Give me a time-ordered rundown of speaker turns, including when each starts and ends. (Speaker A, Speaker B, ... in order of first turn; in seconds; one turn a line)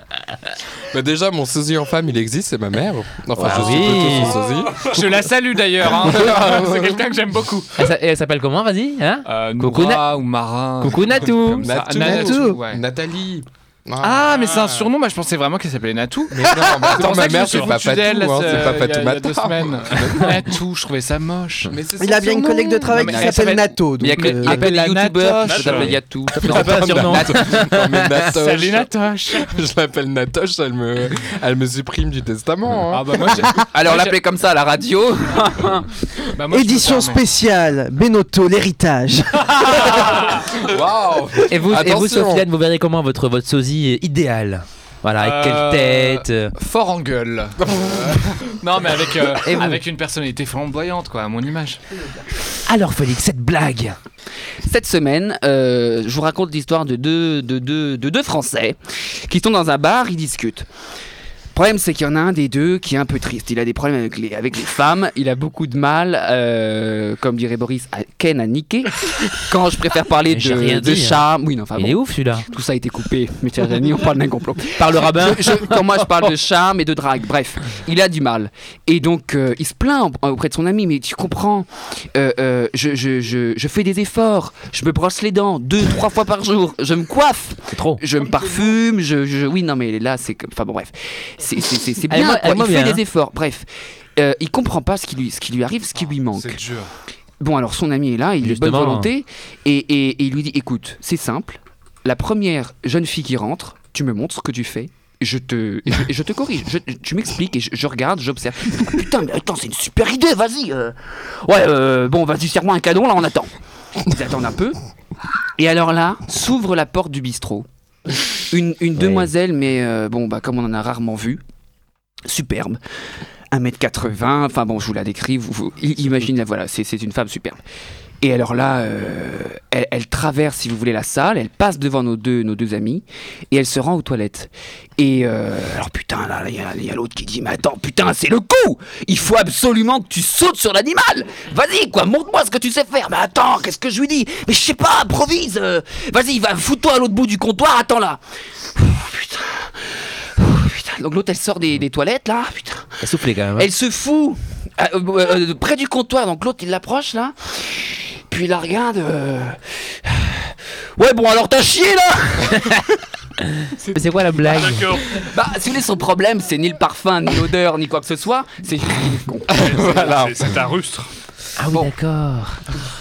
Speaker A: 0.9-5.0
Speaker B: 3.4-4.4
Speaker C: 4.8-7.8
Speaker A: 5.9-7.1
Speaker B: 7.8-10.2
Speaker C: 9.3-12.8
Speaker B: 10.8-11.7
Speaker A: 11.6-14.5
Speaker D: 11.9-12.6
Speaker C: 14.0-21.7
Speaker A: 16.3-20.5
Speaker E: 17.2-17.8
Speaker A: 21.7-23.2
Speaker D: 22.0-24.6
Speaker F: 22.9-27.4
Speaker C: 22.9-23.6
Speaker C: 24.2-26.0
Speaker E: 25.4-26.0
Speaker B: 26.3-28.3
Speaker A: 26.4-33.5
Speaker C: 28.2-29.5
Speaker C: 32.9-34.2
Speaker F: 33.7-35.9
Speaker C: 36.3-37.2
Speaker D: 36.5-40.4
Speaker A: 40.0-42.5
Speaker B: 41.5-46.5
Speaker C: 45.2-51.8
Speaker A: 47.6-48.2
Speaker B: 49.4-49.8
Speaker B: 52.7-54.0
Speaker F: 54.6-60.7
Speaker F: 61.5-96.6
Speaker B: 70.3-72.5
Speaker B: 74.8-76.3
Speaker B: 87.7-88.0
Speaker B: 92.1-93.0
Speaker C: 96.3-96.9
Speaker F: 97.4-113.5
Speaker B: 98.4-99.1
Speaker F: 114.0-114.8
Speaker F: 115.6-117.7
Speaker F: 118.5-121.4
Speaker B: 119.0-119.3
Speaker F: 122.3-122.8
Speaker F: 123.5-127.6
Speaker F: 128.2-148.2
Speaker F: 148.7-162.7
Speaker B: 153.0-153.7
Speaker B: 162.5-162.9
Speaker B: 163.4-165.0
Speaker E: 164.4-165.2
Speaker F: 165.2-170.2
Speaker A: 169.5-170.6
Speaker E: 169.6-171.1
Speaker B: 171.6-172.6